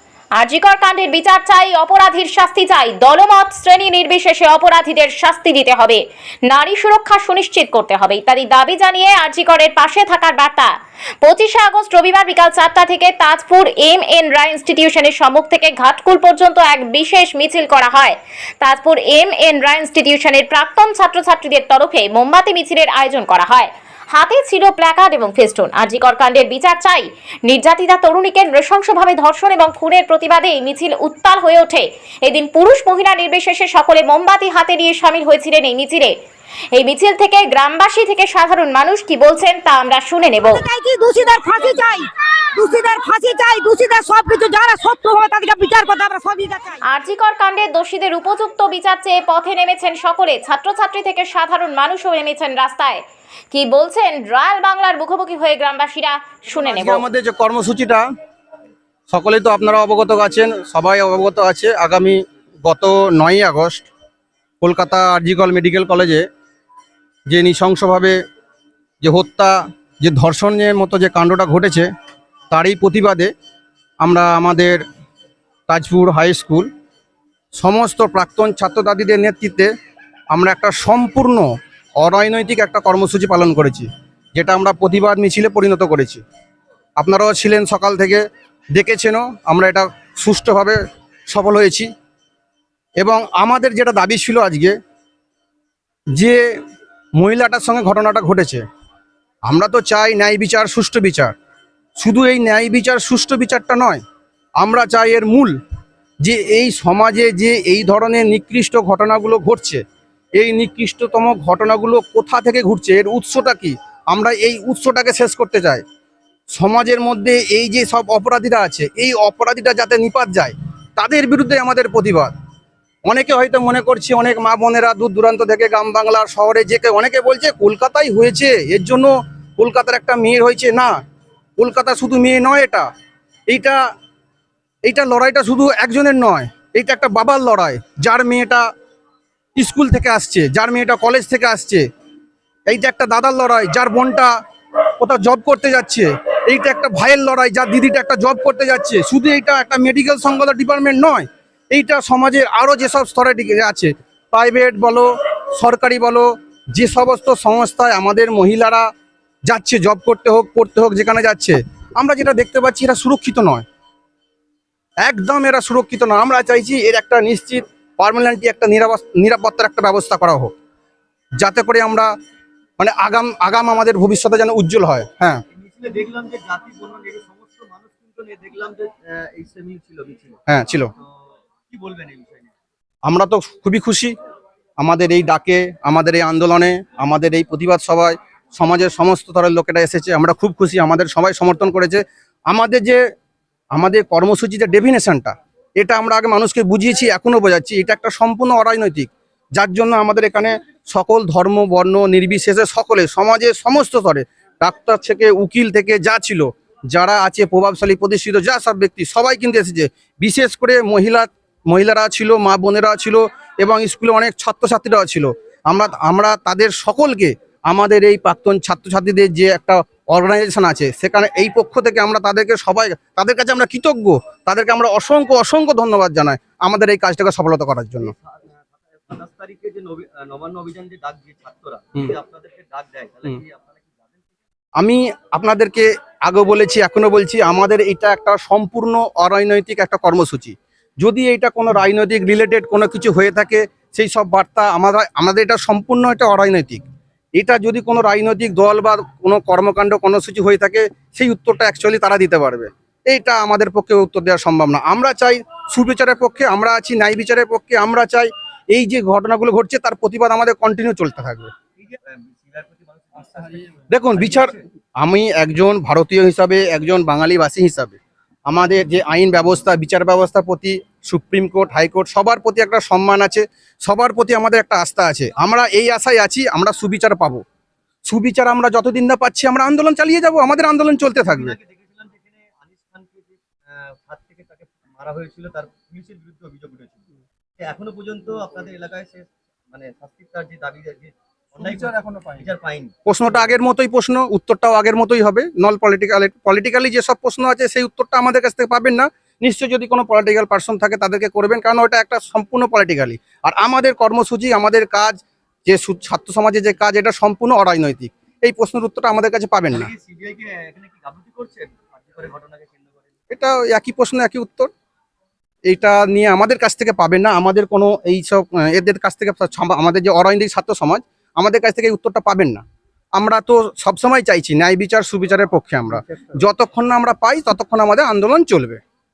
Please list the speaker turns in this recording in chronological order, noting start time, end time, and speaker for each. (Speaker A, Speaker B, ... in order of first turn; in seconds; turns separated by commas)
Speaker A: 0.4-36.1, Speaker A: 36.7-40.7, Speaker B: 40.5-46.8, Speaker A: 46.8-57.0, Speaker C: 56.5-58.0, Speaker C: 59.1-63.9, Speaker C: 64.6-66.2, Speaker C: 67.3-68.2, Speaker C: 69.0-71.9, Speaker C: 72.5-73.3, Speaker C: 74.0-74.8, Speaker C: 75.7-76.7, Speaker C: 77.6-79.7, Speaker C: 80.3-86.2, Speaker C: 87.0-88.2, Speaker C: 88.7-91.9, Speaker C: 93.0-94.8, Speaker C: 96.2-96.4, Speaker C: 97.2-98.6, Speaker C: 99.5-101.3, Speaker C: 102.0-104.0, Speaker C: 104.6-105.6, Speaker C: 106.2-109.8, Speaker C: 110.4-115.8, Speaker C: 116.5-122.3, Speaker C: 123.1-130.9, Speaker C: 131.6-132.9, Speaker C: 133.5-133.8, Speaker C: 134.8-138.6, Speaker C: 139.6-141.8, Speaker C: 142.7-144.3, Speaker C: 145.0-158.8, Speaker C: 159.5-163.7, Speaker C: 165.0-170.5, Speaker C: 171.4-172.1, Speaker C: 172.8-175.4, Speaker D: 175.6-180.2, Speaker B: 177.4-177.8, Speaker C: 180.5-180.9, Speaker D: 181.7-182.3, Speaker C: 183.1-184.2, Speaker C: 184.8-193.0, Speaker C: 193.7-228.2, Speaker D: 228.2-233.7, Speaker C: 234.8-246.8, Speaker C: 247.4-261.5, Speaker D: 261.8-263.2, Speaker B: 263.2-263.8, Speaker C: 263.9-277.4, Speaker C: 278.1-281.6, Speaker D: 281.2-282.1, Speaker B: 282.0-282.9, Speaker D: 282.9-283.2, Speaker D: 283.9-286.9, Speaker B: 284.6-285.3, Speaker D: 287.6-291.8, Speaker B: 288.3-288.7, Speaker C: 291.6-292.5, Speaker D: 292.4-292.8, Speaker B: 292.6-292.9, Speaker C: 293.1-309.9, Speaker D: 309.8-313.1, Speaker C: 313.3-314.7, Speaker C: 315.7-322.6, Speaker C: 323.2-328.8